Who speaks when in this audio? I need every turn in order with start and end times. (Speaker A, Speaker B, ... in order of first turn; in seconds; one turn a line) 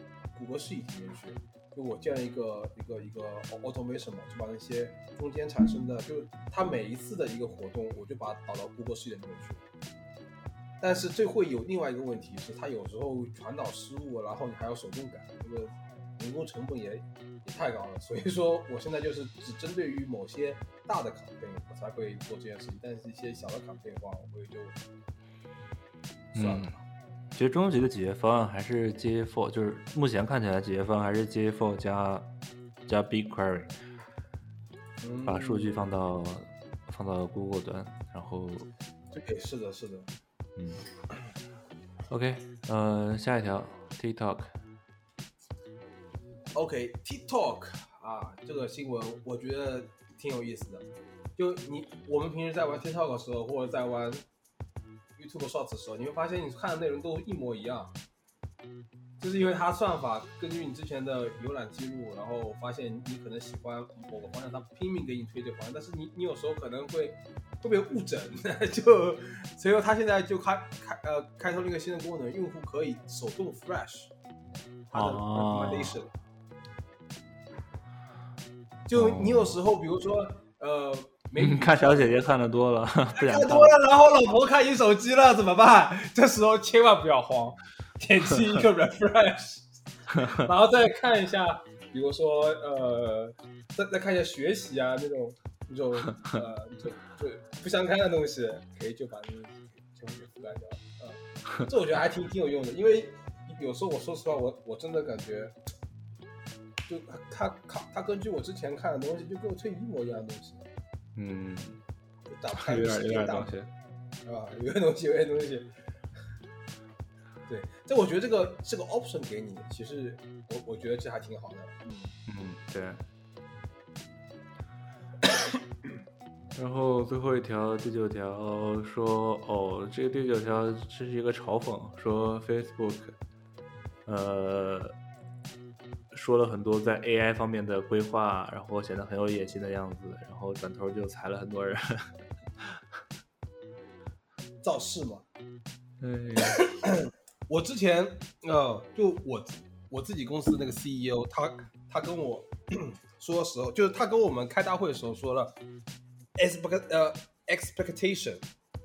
Speaker A: 0.3-9.6
Speaker A: 10.8-24.8
Speaker B: 26.3-26.8
Speaker A: 26.3-26.8
Speaker B: 27.3-32.3
Speaker B: 32.9-33.7
Speaker A: 35.0-35.8
Speaker B: 35.2-38.7
Speaker A: 39.1-40.1
Speaker B: 40.6-40.9
Speaker B: 42.1-44.5
Speaker A: 46.5-54.2
Speaker A: 55.1-57.9
Speaker A: 59.2-74.1
Speaker A: 74.9-76.1
Speaker B: 74.9-76.0
Speaker A: 78.9-82.2
Speaker B: 78.9-79.6
Speaker B: 81.4-83.7
Speaker A: 83.1-105.6
Speaker A: 106.9-110.6
Speaker B: 111.2-111.8
Speaker A: 112.3-113.5
Speaker B: 112.5-113.7
Speaker A: 114.2-115.7
Speaker A: 117.5-122.2
Speaker B: 122.3-123.0
Speaker A: 125.2-125.6
Speaker B: 126.5-133.2
Speaker B: 134.1-134.9
Speaker B: 136.1-142.8
Speaker A: 144.6-145.2
Speaker B: 146.0-146.7
Speaker A: 146.4-155.5
Speaker A: 156.3-158.4